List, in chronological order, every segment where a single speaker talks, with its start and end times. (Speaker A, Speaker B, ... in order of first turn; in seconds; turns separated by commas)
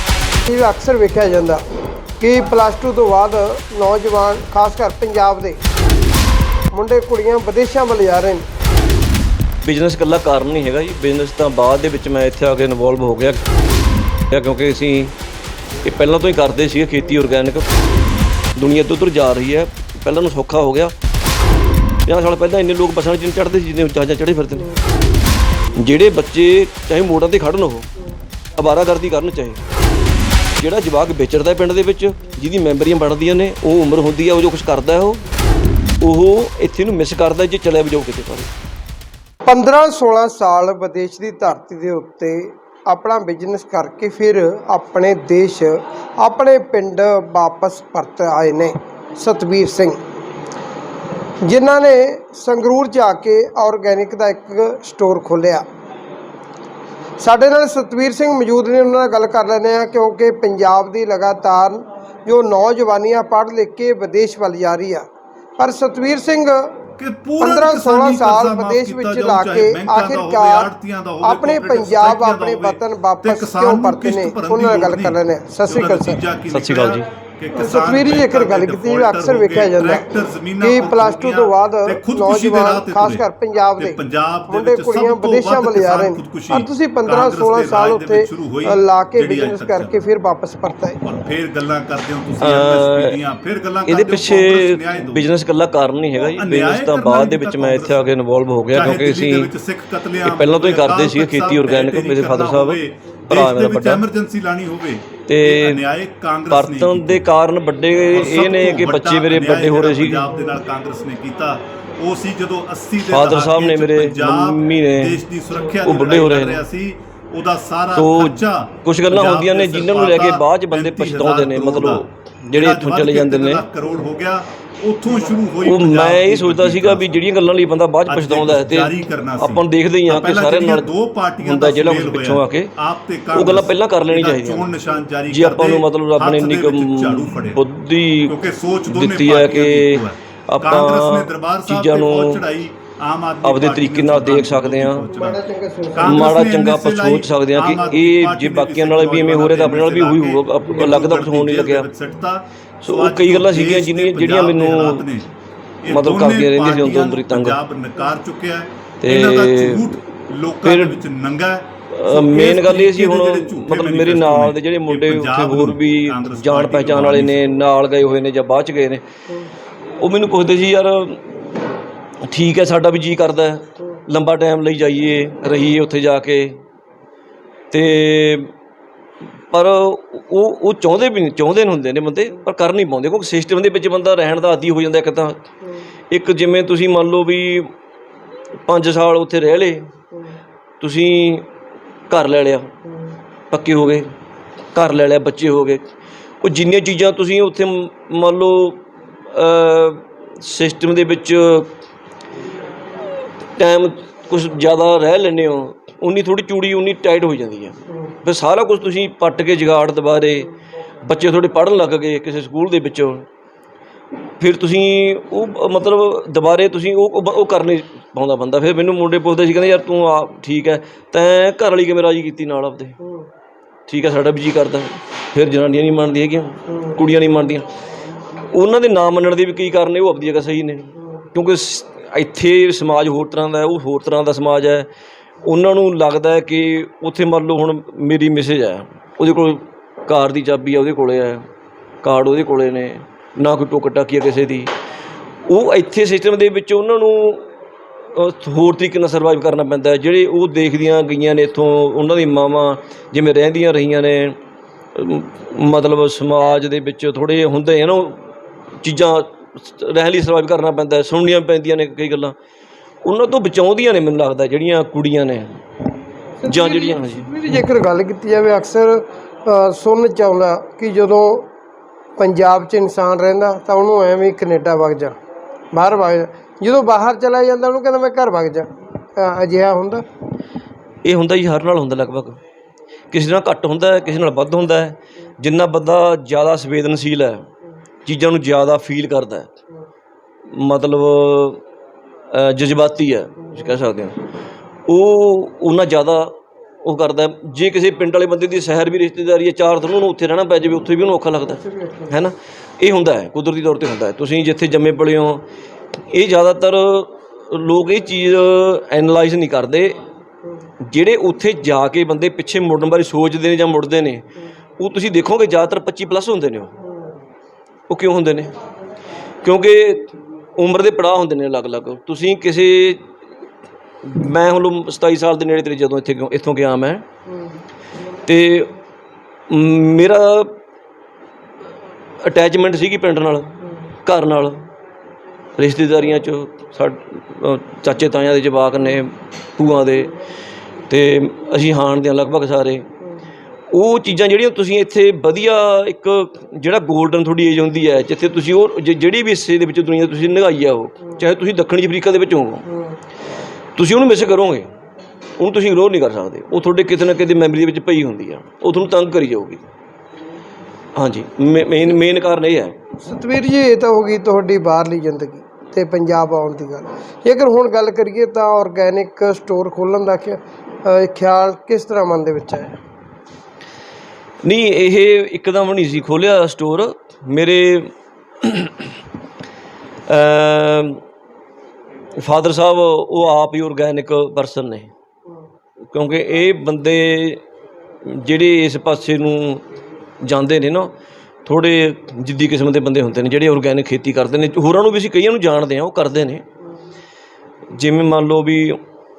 Speaker A: 0.5-1.6, Speaker A: 2.2-5.6, Speaker A: 6.7-8.4, Speaker B: 9.6-13.4, Speaker B: 14.3-15.2, Speaker B: 15.8-17.7, Speaker B: 18.6-20.9, Speaker B: 22.1-24.8, Speaker B: 25.8-27.9, Speaker B: 28.6-29.6, Speaker B: 30.6-35.2, Speaker B: 36.0-38.5, Speaker A: 39.5-50.0, Speaker A: 51.5-55.6, Speaker A: 57.2-65.1, Speaker A: 65.6-66.8, Speaker C: 67.0-83.3, Speaker A: 67.4-70.7, Speaker A: 71.2-76.2, Speaker B: 76.5-77.1, Speaker A: 77.5-84.0, Speaker C: 83.8-90.0, Speaker A: 84.5-91.0, Speaker C: 91.0-95.2, Speaker B: 92.4-93.2, Speaker B: 93.9-99.5, Speaker C: 96.3-98.1, Speaker C: 98.7-107.2, Speaker B: 100.2-104.1, Speaker B: 105.3-105.8, Speaker B: 106.5-110.3, Speaker C: 108.1-127.2, Speaker B: 113.1-115.2, Speaker B: 115.8-116.7, Speaker B: 118.0-123.6, Speaker B: 125.6-132.7, Speaker C: 128.1-137.6, Speaker B: 133.3-134.7, Speaker B: 135.3-138.4, Speaker C: 138.3-145.4, Speaker B: 138.9-142.4, Speaker B: 143.4-145.1, Speaker A: 145.1-146.4, Speaker C: 145.9-155.3, Speaker B: 146.0-151.9, Speaker A: 150.6-150.9, Speaker B: 152.8-155.1, Speaker C: 155.8-167.4, Speaker B: 155.9-157.6, Speaker B: 159.0-160.0, Speaker B: 160.6-161.0, Speaker B: 161.9-169.0, Speaker B: 170.0-171.5, Speaker B: 172.3-176.6, Speaker B: 177.7-178.5, Speaker B: 179.5-185.4, Speaker B: 186.1-187.7, Speaker B: 188.7-189.9, Speaker B: 190.8-191.5, Speaker B: 192.1-192.7, Speaker B: 193.5-194.1, Speaker B: 194.7-195.8, Speaker B: 196.4-201.7, Speaker B: 203.6-210.5, Speaker B: 211.0-213.3, Speaker B: 214.4-223.0, Speaker A: 223.0-223.3, Speaker B: 223.9-227.7, Speaker A: 226.7-227.0, Speaker B: 228.4-234.9, Speaker B: 235.4-241.4, Speaker B: 242.0-244.7, Speaker B: 245.5-254.4, Speaker B: 254.9-258.3, Speaker B: 258.8-262.3, Speaker B: 263.0-265.5, Speaker A: 266.4-271.5, Speaker B: 266.5-267.5, Speaker A: 272.2-275.1, Speaker A: 275.7-280.1, Speaker B: 281.1-282.4, Speaker B: 283.1-287.5, Speaker B: 288.1-289.5, Speaker B: 290.5-291.6, Speaker B: 292.3-294.2, Speaker B: 294.9-305.4, Speaker A: 301.7-302.1, Speaker B: 306.1-310.0, Speaker B: 310.8-314.3, Speaker B: 314.8-316.8, Speaker B: 317.9-318.5, Speaker B: 319.4-323.1, Speaker B: 324.0-327.0, Speaker B: 328.2-328.7, Speaker B: 329.5-330.6, Speaker B: 332.2-334.7, Speaker B: 335.6-340.1, Speaker B: 340.9-342.9, Speaker B: 343.7-352.6, Speaker A: 352.7-353.0, Speaker B: 353.8-354.7, Speaker B: 355.4-359.6, Speaker B: 361.0-362.8, Speaker A: 363.0-372.8, Speaker B: 374.4-379.0, Speaker B: 380.1-381.0, Speaker B: 382.2-384.9, Speaker B: 385.9-387.4, Speaker B: 388.1-389.6, Speaker B: 390.2-390.9, Speaker B: 391.4-396.4, Speaker B: 397.7-398.8